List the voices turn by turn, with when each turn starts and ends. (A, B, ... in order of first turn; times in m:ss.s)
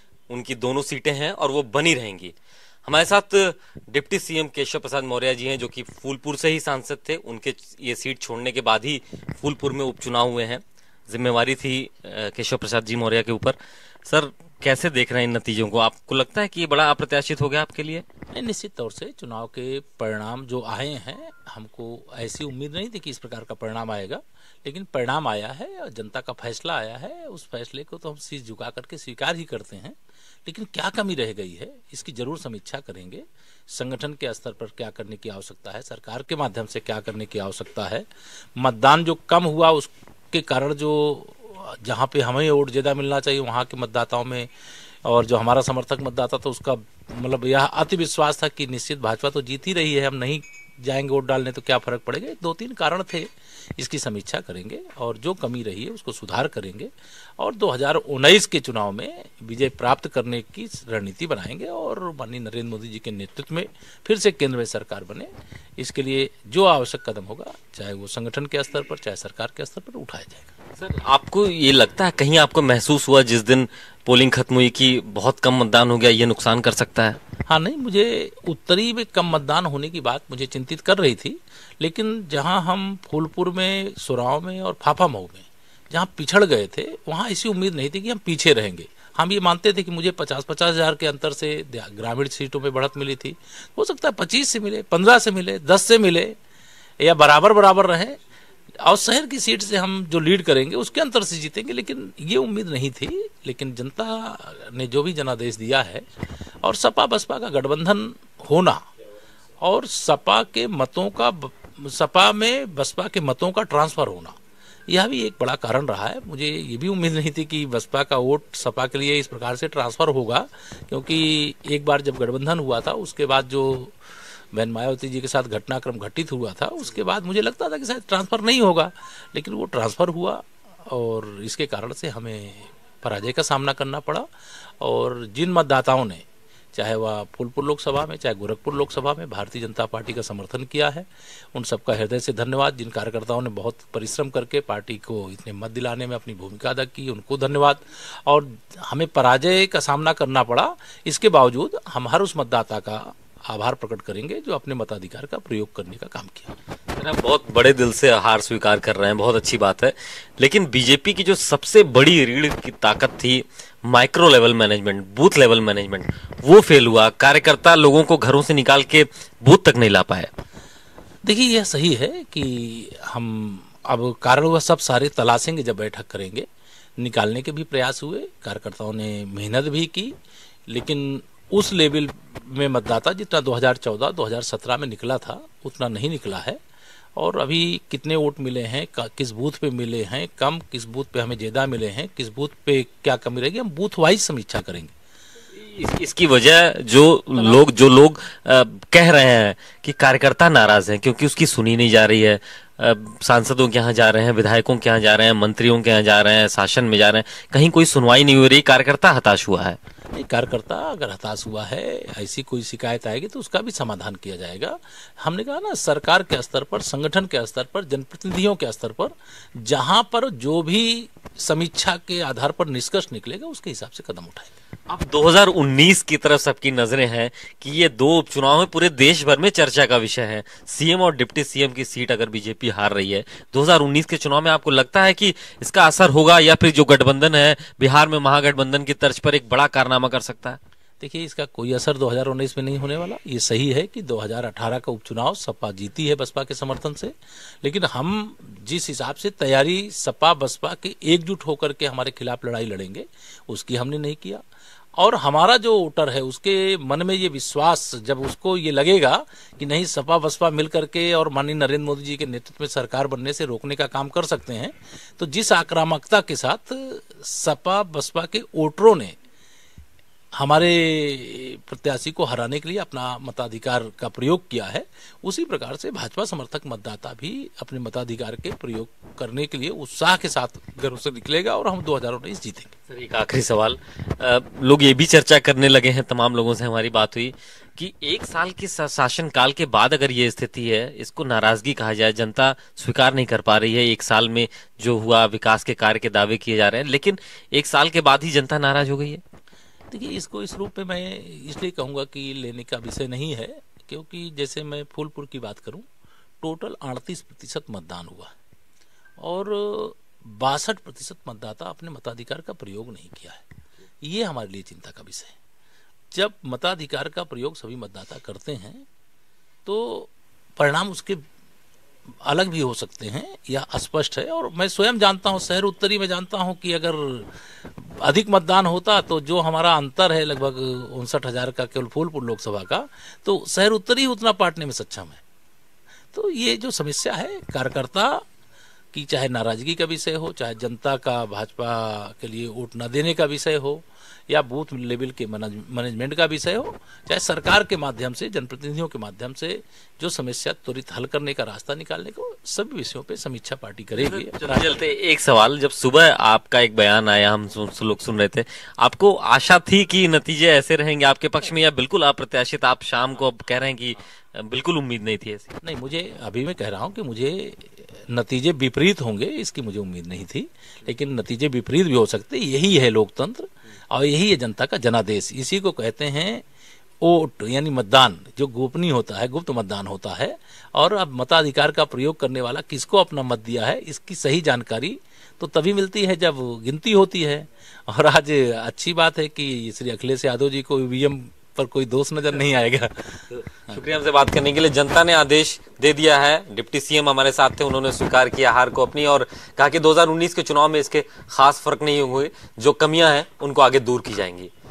0:00.3-0:18.0 A
0:18.3-0:44.5 B
0:45.0-1:10.5 B
1:10.8-1:17.2 A
1:17.5-1:36.4 B
1:37.0-1:38.2 B
1:38.8-1:46.0 B
1:46.6-1:48.8 B
1:49.6-1:54.4 B
1:54.9-2:04.0 B
2:04.5-2:14.3 B
2:14.8-2:36.6 B
2:37.0-2:50.3 A
2:51.2-2:56.5 B
2:57.0-3:00.2 B
3:00.7-3:06.6 B
3:07.2-3:14.9 B
3:15.5-3:29.8 A
3:30.1-3:44.5 B
3:44.9-4:00.6 A
4:01.0-4:14.4 B
4:15.0-4:29.2 B
4:30.4-4:42.7 B
4:42.9-4:59.2 A
4:59.9-5:05.9 B
5:06.4-5:08.3 B
5:09.2-5:13.4 B
5:14.0-5:15.4 B
5:16.1-5:18.9 B
5:19.7-5:21.2 B
5:22.2-5:35.2 B
5:36.1-5:38.2 B
5:38.9-5:54.8 B
5:54.0-6:05.6 A
6:05.6-6:16.4 B
6:17.0-6:33.8 B
6:33.4-6:44.5 A